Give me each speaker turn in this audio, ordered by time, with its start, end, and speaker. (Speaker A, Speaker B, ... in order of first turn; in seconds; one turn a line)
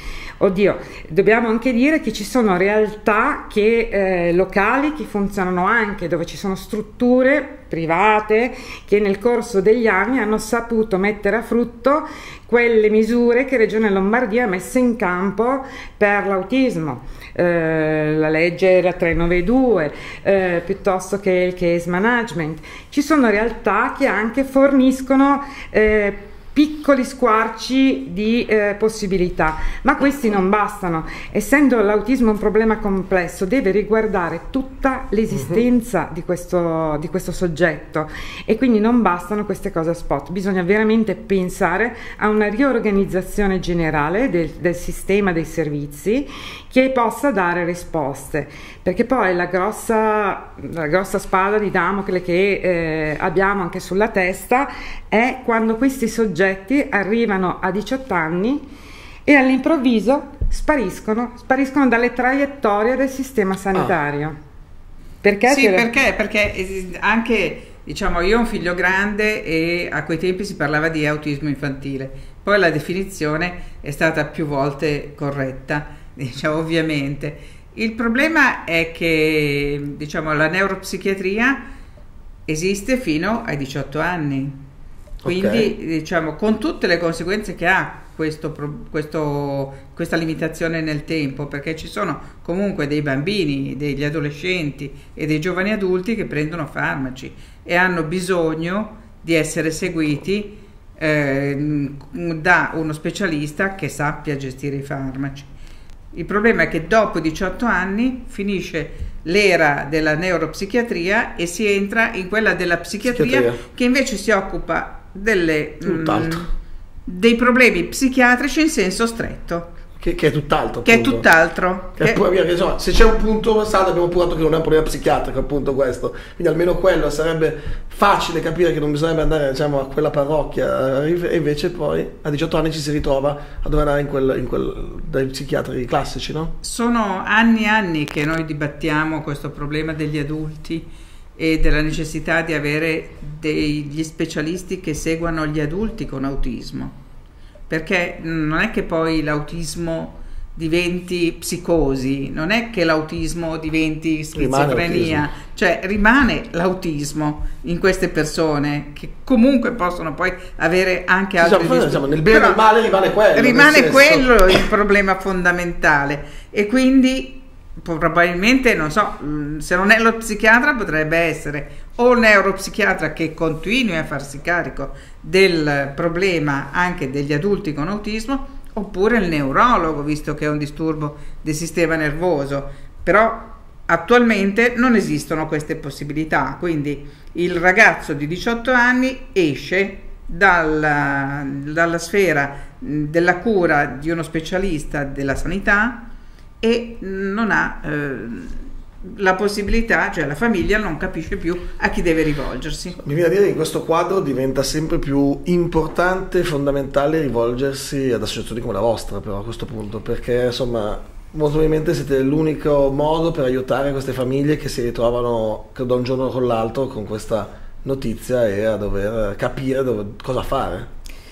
Speaker A: 0.4-58.6
Speaker A: 59.2-64.4
Speaker A: 65.2-65.9
Speaker B: 65.5-81.7
Speaker B: 82.5-84.6
Speaker C: 85.2-85.7
Speaker B: 85.2-105.5
Speaker B: 106.1-116.5
Speaker C: 113.1-113.6
Speaker C: 115.8-116.5
Speaker B: 117.0-119.7
Speaker C: 120.0-121.2
Speaker B: 120.8-122.2
Speaker C: 122.0-136.5
Speaker B: 136.6-146.9
Speaker B: 147.7-162.6
Speaker C: 154.3-155.2
Speaker C: 161.4-164.6
Speaker B: 163.3-196.1
Speaker B: 196.6-203.0
Speaker C: 203.0-220.9